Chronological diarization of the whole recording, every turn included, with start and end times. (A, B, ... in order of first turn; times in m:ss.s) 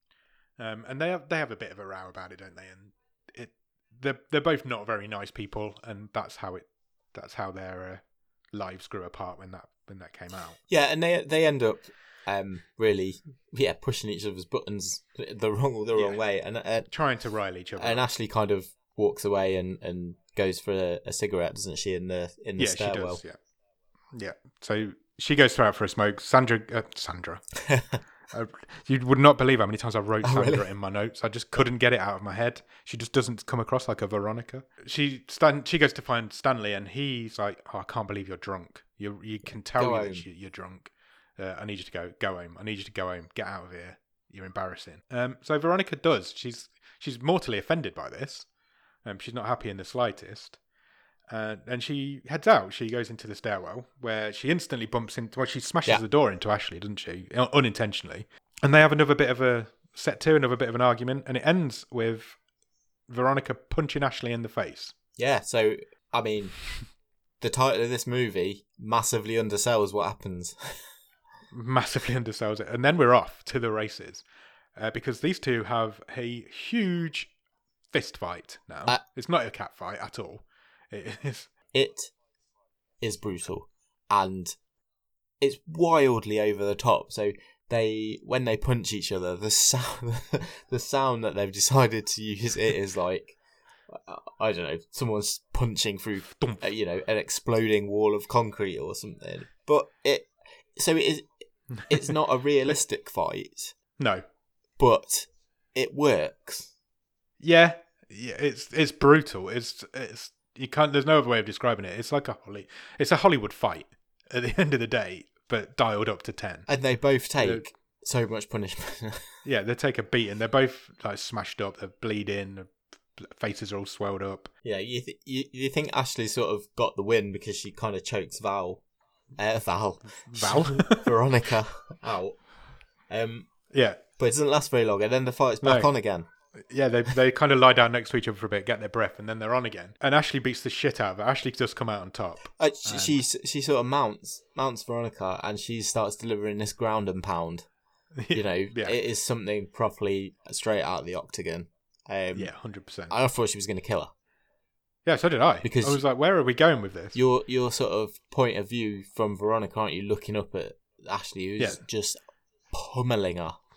0:00.6-0:10.6 A
0:10.7-0:16.9 B
0:16.9-0:18.1 A
0:17.8-0:23.2 B
0:22.6-0:23.4 A
0:24.1-0:27.5 A
0:27.6-0:28.0 B
0:28.3-0:48.5 A
0:30.2-0:30.6 B
0:39.7-0:40.2 B
0:49.0-0:50.6 A
0:51.3-1:02.4 A
1:03.1-1:04.9 A
1:05.2-1:06.6 B
1:07.4-1:10.8 B
1:11.5-1:14.2 A
1:14.8-1:17.3 A
1:17.9-1:21.5 A
1:21.7-1:22.1 B
1:23.0-1:24.6 B
1:25.4-1:41.3 B
1:36.2-1:36.6 A
1:41.9-1:43.7 B
1:44.0-1:44.2 A
1:44.8-1:46.7 B
1:47.4-1:56.7 A
1:56.7-1:59.4 B
1:59.4-2:04.5 A
2:04.6-2:08.8 B
2:09.4-2:12.4 B
2:10.3-2:11.1 A
2:13.1-2:13.5 B
2:13.7-2:14.0 A
2:14.2-2:16.3 B
2:15.6-2:15.9 A
2:16.6-2:23.2 A
2:22.6-2:27.6 B
2:28.2-2:29.0 A
2:28.3-2:32.5 B
2:32.3-2:33.1 A
2:33.1-2:34.1 B
2:35.0-2:37.2 A
2:35.6-2:36.0 B
2:37.1-2:42.2 B
2:42.7-2:43.6 B